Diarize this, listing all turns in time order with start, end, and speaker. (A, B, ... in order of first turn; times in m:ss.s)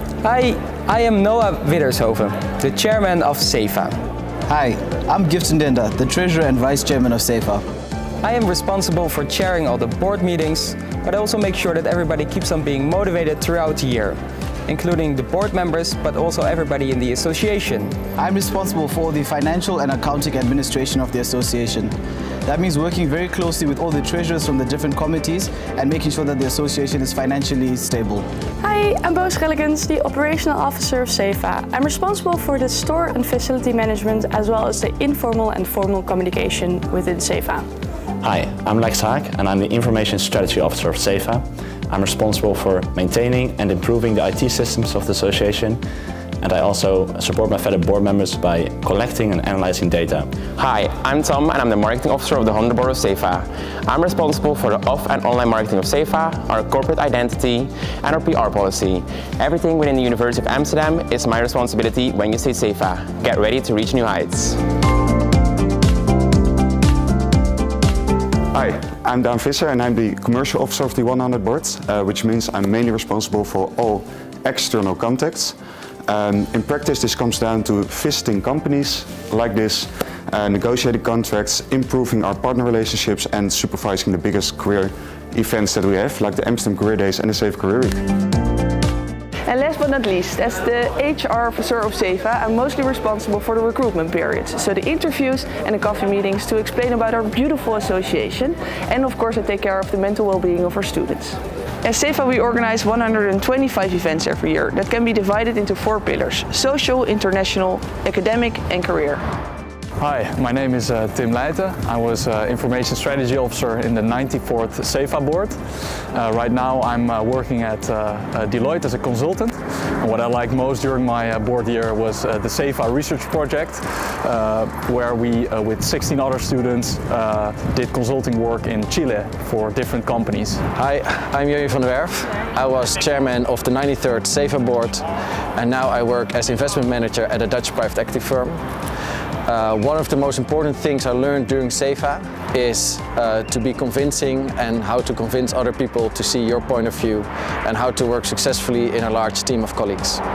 0:00.2-0:04.0 A
0:04.5-0:07.6 B
0:08.2-0:18.0 A
0:18.2-0:21.9 B
0:22.4-0:28.2 B
0:28.6-0:37.6 C
0:38.2-0:45.8 D
0:46.4-0:50.3 D
0:50.6-1:04.6 E
1:08.5-1:28.0 F
1:29.5-1:49.2 G
1:50.0-2:10.6 H
2:10.7-2:18.6 I
2:19.4-2:30.2 I